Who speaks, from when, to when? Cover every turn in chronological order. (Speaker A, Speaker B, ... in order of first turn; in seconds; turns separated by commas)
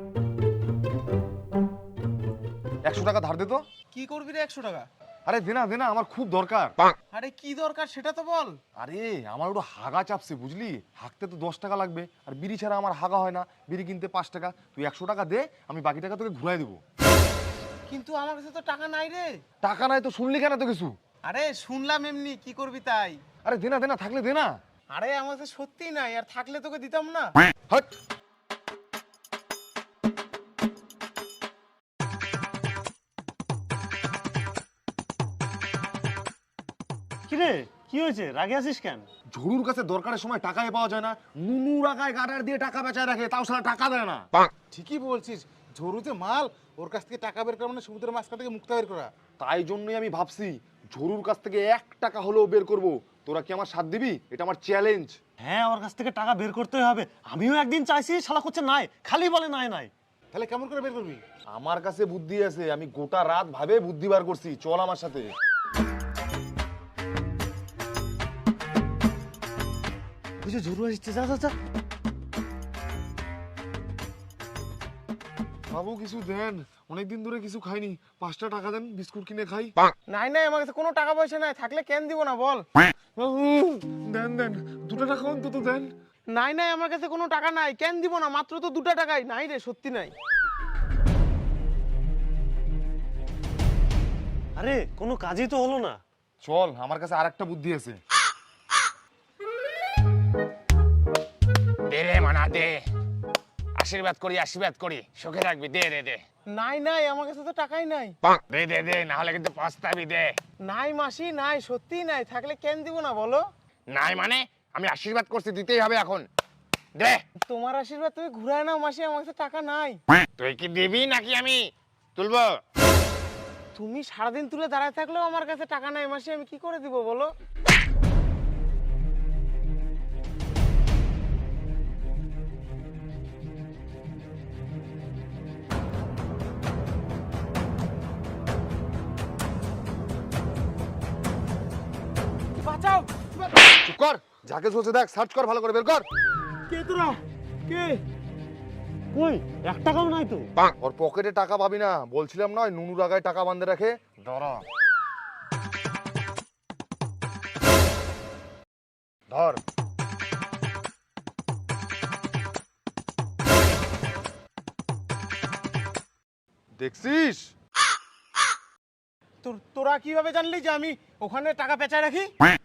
Speaker A: 2.8-3.6, Speaker B: 3.9-4.9, Speaker A: 5.2-6.8, Speaker B: 7.1-8.6, Speaker A: 8.8-16.8, Speaker B: 17.9-19.4, Speaker A: 19.6-20.9, Speaker B: 21.2-23.2, Speaker A: 23.4-24.5, Speaker B: 24.9-27.4, Speaker C: 37.3-39.1, Speaker A: 39.3-44.3, Speaker D: 44.7-49.1, Speaker A: 49.4-55.2, Speaker C: 55.4-59.9, Speaker D: 60.3-61.2, Speaker A: 61.5-65.3, Speaker C: 70.4-71.5, Speaker A: 75.7-79.8, Speaker B: 80.1-82.7, Speaker A: 83.2-85.9, Speaker B: 86.3-90.1, Speaker C: 94.5-96.0, Speaker A: 96.4-98.0, Speaker E: 101.9-102.8, Speaker E: 103.8-106.2, Speaker B: 106.5-108.2, Speaker E: 108.3-110.4, Speaker B: 110.6-113.4, Speaker E: 113.9-116.2, Speaker E: 116.9-117.2, Speaker B: 117.5-120.0, Speaker E: 120.4-121.6, Speaker E: 122.2-122.6, Speaker B: 123.7-127.3, Speaker B: 142.5-143.6, Speaker A: 143.7-146.0, Speaker B: 146.7-148.0, Speaker C: 149.1-150.5, Speaker A: 150.8-154.6, Speaker A: 159.3-159.6, Speaker A: 166.8-167.5, Speaker B: 169.4-172.3